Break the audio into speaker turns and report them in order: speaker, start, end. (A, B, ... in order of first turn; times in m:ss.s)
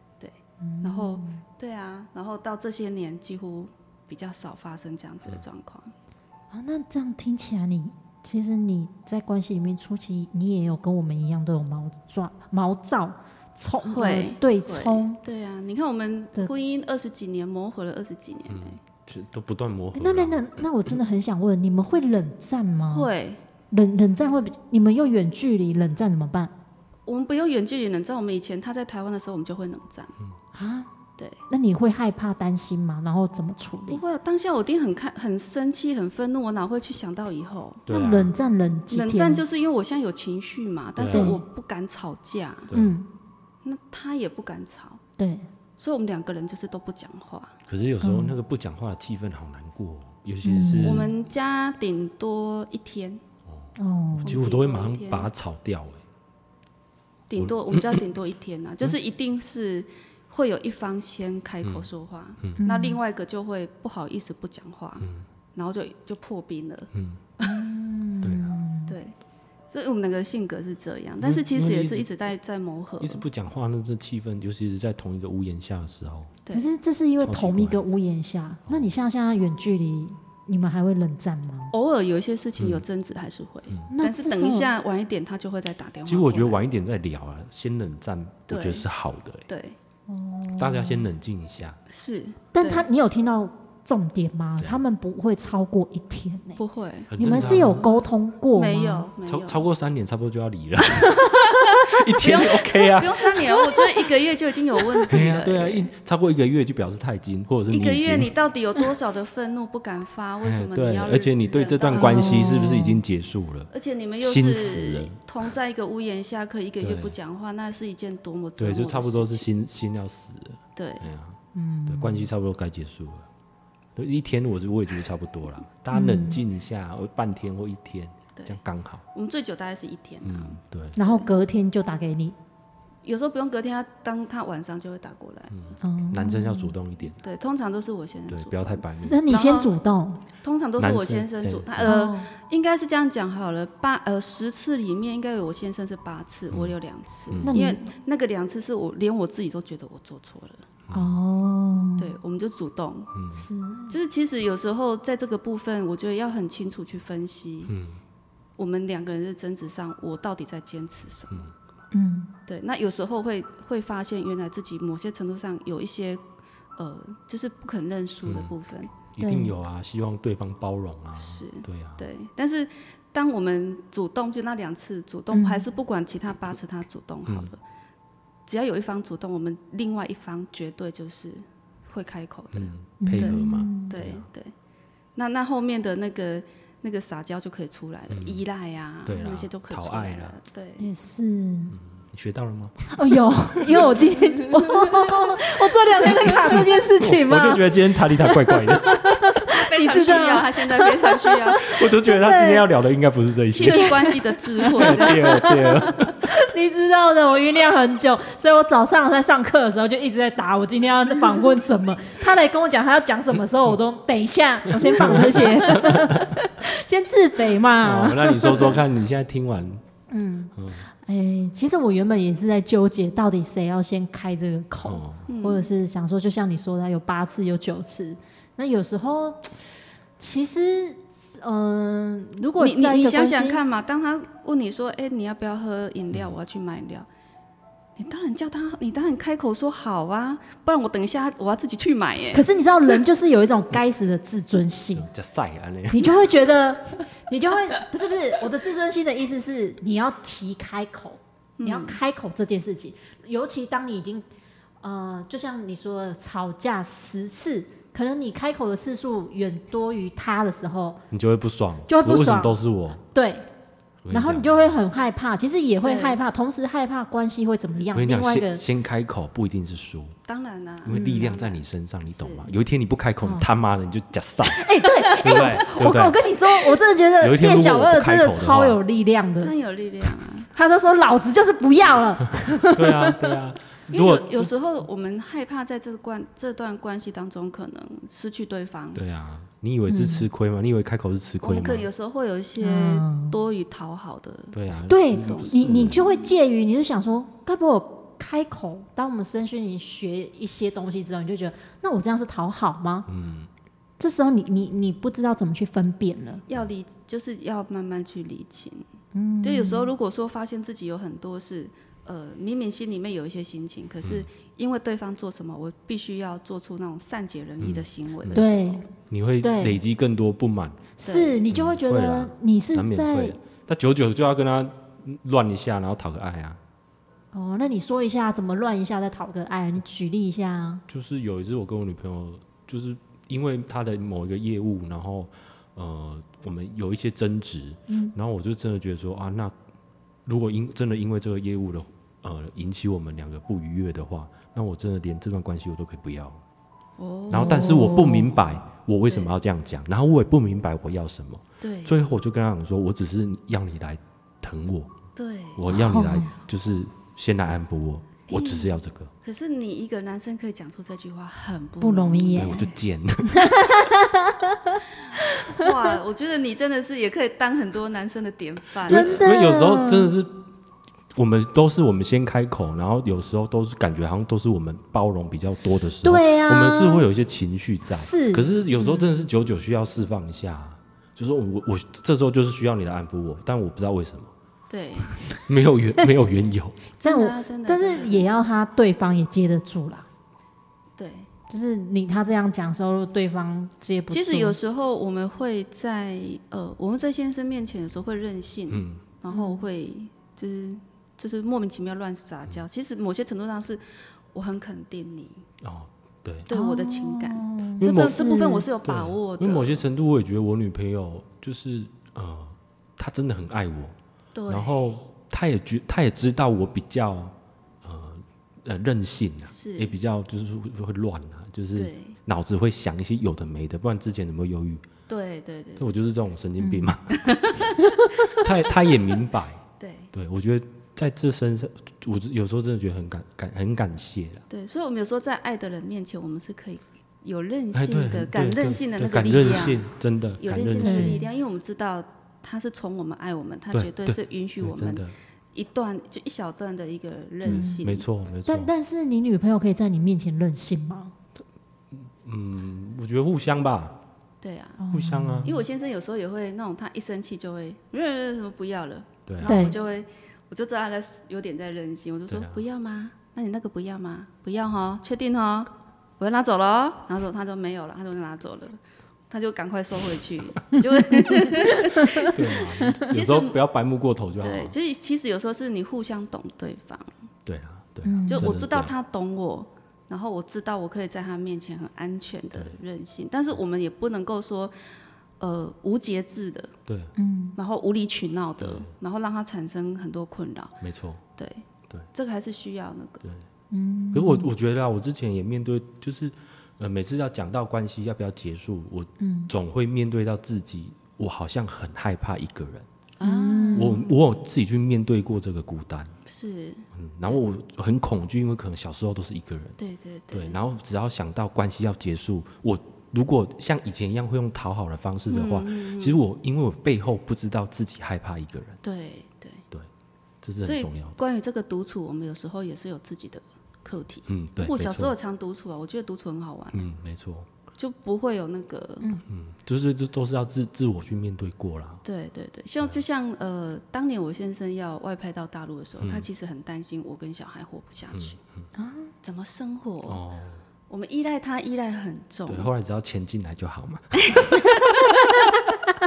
0:00.2-0:05.9 A
0:00.6-0:01.4 B
0:06.5-0:15.2 B
0:13.8-0:18.8 A
0:18.5-0:21.0 C
0:19.9-0:23.1 B
0:22.9-0:23.4 A
0:23.7-0:26.5 B
0:27.1-0:30.1 A
0:30.5-0:30.9 B
0:31.5-0:34.0 B
0:33.9-0:37.8 A
0:37.9-0:38.3 C
0:37.9-0:39.4 B
0:38.9-0:42.7 A
0:41.0-0:41.3 C
0:41.1-0:41.4 B
0:42.7-0:43.0 C
0:42.7-0:43.1 B
0:43.6-0:45.0 A
0:45.2-0:45.5 B
0:45.8-0:47.6 A
0:47.7-0:51.1 C
0:48.0-0:48.4 B
0:50.4-0:51.1 B
0:50.8-0:53.2 A
0:53.5-0:56.0 C
0:53.8-0:54.3 B
0:54.2-0:55.3 A
0:57.3-1:06.9 A
0:57.4-0:58.0 C
1:01.6-1:01.9 C
1:02.6-1:03.0 B
1:06.9-1:07.2 C
1:07.4-1:09.0 B
1:08.2-1:08.6 C
1:08.9-1:09.2 A
1:09.7-1:13.2 A
1:11.2-1:12.1 C
1:13.0-1:16.3 C
1:16.5-1:21.7 B
1:17.2-1:17.8 C
1:21.7-1:26.6 A
1:22.6-1:22.8 C
1:23.9-1:24.7 B
1:26.1-1:29.5 C
1:28.5-1:28.9 A
1:29.5-1:29.8 A
1:30.1-1:31.1 B
1:30.6-1:31.8 C
1:31.9-1:32.9 A
1:32.6-1:36.6 B
1:34.6-1:34.8 C
1:36.6-1:38.0 A
1:37.1-1:37.8 C
1:37.2-1:39.1 B
1:38.5-1:39.6 A
1:39.3-1:43.7 C
1:41.5-1:45.9 A
1:45.1-1:48.3 C
1:47.7-1:52.7 A
1:50.4-1:55.2 C
1:51.9-1:53.0 B
1:53.7-1:59.5 A
1:56.8-1:57.2 C
1:58.6-2:03.3 C
2:00.8-2:01.1 A
2:01.5-2:02.3 B
2:04.0-2:09.0 C
2:05.9-2:06.4 B
2:08.4-2:08.6 A
2:09.1-2:11.3 A
2:10.2-2:11.0 C
2:11.0-2:12.4 B
2:13.0-2:15.7 A
2:15.5-2:17.2 C
2:15.8-2:16.8 B
2:17.2-2:19.7 A
2:18.3-2:19.2 C
2:19.0-2:20.2 B
2:20.4-2:30.7 A
2:20.8-2:22.0 C
2:21.8-2:22.3 B
2:26.5-2:26.8 C
2:27.3-2:27.6 C
2:27.4-2:27.9 B
2:30.9-2:31.2 C
2:30.9-2:32.1 B
2:32.0-2:33.1 A
2:33.1-2:33.4 C
2:33.3-2:34.0 B
2:33.9-2:37.7 A
2:37.7-2:38.0 C
2:38.6-2:41.5 A
2:41.9-2:42.3 B
2:42.5-2:46.2 A
2:46.8-2:48.9 A
2:48.3-2:48.5 C
2:49.1-2:52.1 C
2:49.2-2:49.5 B
2:51.2-2:57.6 A
2:55.3-2:55.7 B
2:57.3-2:57.5 C
2:58.5-3:04.5 A
3:02.5-3:04.3 C
3:03.0-3:04.0 B
3:05.2-3:10.9 A
3:08.1-3:08.4 C
3:09.1-3:10.4 C
3:10.8-3:11.8 B
3:11.7-3:13.0 C
3:12.9-3:22.6 B
3:13.6-3:13.9 C
3:17.0-3:19.0 C
3:19.5-3:21.7 A
3:21.6-3:24.2 C
3:23.5-3:26.0 A
3:23.7-3:38.8 B
3:24.7-3:26.2 C
3:34.7-3:36.4 C
3:37.8-3:39.8 C
3:40.1-3:49.6 B
3:40.6-3:40.9 C
3:44.8-3:45.3 C
3:45.3-3:45.7 A
3:50.2-3:53.6 B
3:52.6-3:57.1 A
3:58.0-4:02.5 A
4:02.3-4:05.1 B
4:05.0-4:06.3 C
4:05.9-4:14.2 B
4:11.6-4:12.0 A
4:14.8-4:21.0 B
4:21.1-4:23.0 C
4:21.9-4:22.6 B
4:23.1-4:23.5 B
4:24.0-4:24.8 C
4:24.1-4:28.6 B
4:25.8-4:26.2 A
4:27.9-4:30.2 C
4:30.3-4:31.6 A
4:30.8-4:34.6 C
4:30.9-4:31.2 B
4:32.2-4:32.5 A
4:34.5-4:39.5 B
4:35.2-4:36.2 C
4:35.3-4:35.5 A
4:37.2-4:38.8 C
4:39.4-4:40.5 A
4:40.5-4:43.3 B
4:42.6-4:44.5 C
4:43.9-4:49.0 A
4:48.9-4:51.9 C
4:49.9-4:50.3 B
4:51.4-4:56.1 A
4:52.6-4:53.4 B
4:54.5-4:56.0 C
4:54.9-5:03.1 B
5:03.1-5:03.5 C
5:04.0-5:06.4 B
5:06.5-5:08.8 A
5:09.1-5:09.9 B
5:09.4-5:18.8 A
5:17.6-5:18.5 C
5:18.3-5:18.8 B
5:19.1-5:20.9 C
5:19.4-5:19.8 B
5:21.0-5:23.4 B
5:21.0-5:21.4 A
5:21.5-5:26.6 C
5:27.3-5:30.8 B
5:30.9-5:39.6 C
5:37.9-5:38.1 B
5:40.3-5:46.4 C
5:47.0-5:48.4 A
5:47.3-5:54.9 C
5:47.3-5:48.4 B
5:49.1-5:49.3 A
5:51.6-5:52.0 A
5:55.2-5:55.6 A
5:55.6-5:59.1 C
5:55.7-5:56.3 B
5:58.3-6:02.6 A
6:01.8-6:05.7 B
6:02.4-6:03.9 C
6:05.5-6:09.2 A
6:08.9-6:10.4 C
6:08.9-6:10.1 B
6:11.1-6:24.3 C
6:16.0-6:17.1 B
6:17.9-6:19.1 B
6:24.7-6:25.2 A
6:25.5-6:26.8 C
6:27.0-6:28.3 A
6:27.0-6:30.1 B
6:31.0-6:31.3 A
6:31.5-6:34.6 B
6:34.1-6:43.8 A
6:38.7-6:39.0 C
6:39.3-6:39.6 B
6:44.3-6:45.4 A
6:45.6-6:46.5 C
6:46.5-6:49.8 A
6:46.5-6:48.7 B
6:47.8-6:48.2 C
6:48.8-6:54.0 C
6:54.4-6:54.8 A
6:54.5-7:04.8 C
6:59.5-7:00.0 A
7:01.8-7:02.2 A
7:05.1-7:06.0 A
7:05.8-7:07.7 C
7:06.6-7:07.0 B
7:07.1-7:07.8 A
7:08.2-7:09.6 C
7:09.8-7:10.1 A
7:10.1-7:14.4 C
7:14.5-7:19.9 A
7:17.7-7:21.2 C
7:20.4-7:28.1 A
7:20.8-7:21.3 B
7:23.7-7:25.1 C
7:27.4-7:27.9 B
7:27.4-7:28.7 C
7:28.5-7:31.1 B
7:31.9-7:34.0 C
7:34.4-7:34.8 A
7:34.8-7:35.6 B
7:34.9-7:35.5 C
7:35.4-7:53.6 A
7:39.3-7:39.6 C
7:39.4-7:39.8 B
7:42.3-7:42.6 C
7:51.6-7:52.3 B
7:52.2-7:54.8 C
7:54.4-7:57.1 A
7:57.5-7:58.9 C
7:58.0-7:58.6 B
7:58.3-8:04.7 A
8:05.4-8:06.8 A
8:06.9-8:07.2 C
8:07.2-8:07.6 B
8:07.6-8:10.8 A
8:08.6-8:08.9 C
8:10.8-8:11.2 C
8:11.4-8:13.2 A
8:13.7-8:14.5 B
8:14.1-8:22.9 C
8:19.2-8:19.5 B
8:23.2-8:24.1 A
8:23.2-8:24.0 B
8:23.8-8:26.2 C
8:26.3-8:27.4 A
8:26.9-8:29.8 C
8:29.8-8:30.6 A
8:30.3-8:38.8 C
8:35.3-8:36.2 A
8:38.8-8:39.6 A
8:40.4-8:41.2 C
8:40.6-8:46.9 A
8:44.3-8:45.1 C
8:46.7-8:47.5 C
8:47.8-8:49.1 A
8:49.3-8:52.0 C
8:52.0-8:58.4 A
8:56.0-8:56.3 C
8:58.1-8:58.6 C
8:58.8-8:59.1 B
8:59.2-9:00.2 A
9:00.1-9:00.6 C
9:00.9-9:02.7 A
9:02.5-9:04.8 C
9:04.2-9:05.4 A